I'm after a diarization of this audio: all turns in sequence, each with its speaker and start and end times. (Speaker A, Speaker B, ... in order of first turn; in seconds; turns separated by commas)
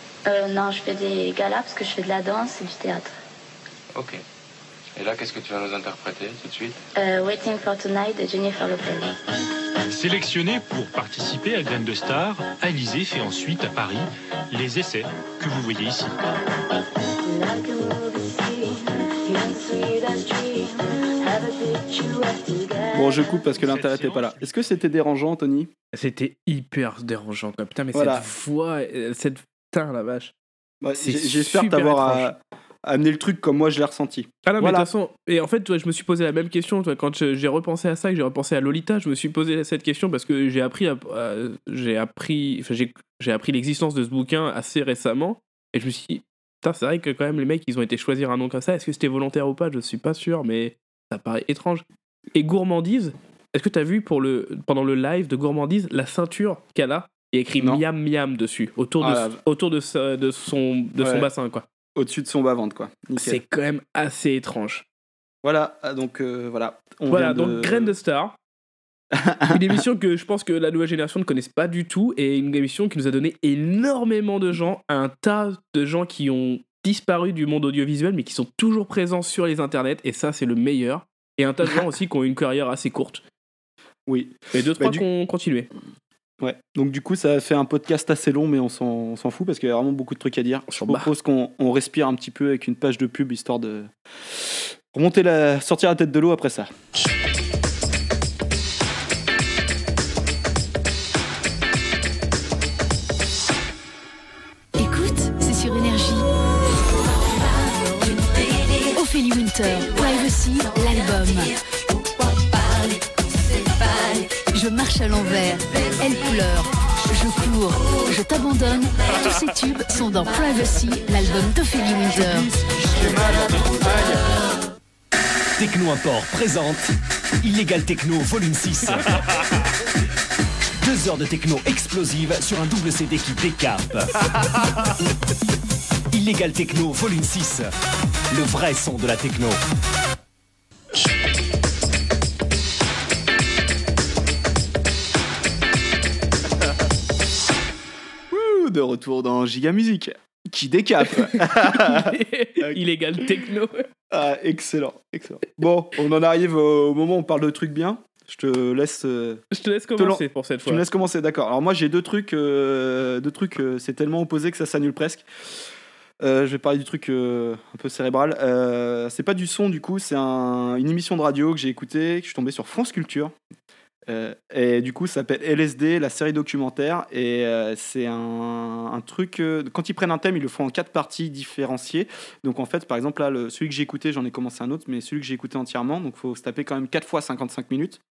Speaker A: 0.2-3.1, Speaker B: 3.9-4.2, Speaker B: 4.9-6.8, Speaker A: 7.0-9.1, Speaker C: 9.9-16.1, Speaker A: 17.2-23.5, Speaker D: 22.9-25.7, Speaker C: 23.6-24.4, Speaker E: 25.9-30.3, Speaker D: 27.9-28.2, Speaker D: 30.8-34.9, Speaker E: 31.0-32.3, Speaker E: 34.5-61.6, Speaker D: 59.0-59.4, Speaker D: 61.0-61.3, Speaker D: 62.0-63.4, Speaker E: 63.2-64.8, Speaker D: 65.4-67.9, Speaker E: 67.1-68.3, Speaker D: 69.1-69.8, Speaker E: 69.5-83.2, Speaker D: 84.1-85.0, Speaker E: 84.5-85.7, Speaker D: 86.4-93.9, Speaker E: 90.7-91.1, Speaker D: 94.9-96.7, Speaker F: 104.8-106.3, Speaker F: 108.0-111.6, Speaker F: 113.7-122.5, Speaker D: 122.1-124.3, Speaker G: 125.6-126.9, Speaker G: 127.4-129.2, Speaker G: 130.8-134.1, Speaker G: 136.1-137.7, Speaker G: 138.3-139.6, Speaker D: 148.3-152.8, Speaker E: 151.1-153.8, Speaker D: 154.1-159.4, Speaker E: 159.5-160.8, Speaker D: 160.0-165.2, Speaker D: 166.2-173.3, Speaker D: 174.1-188.0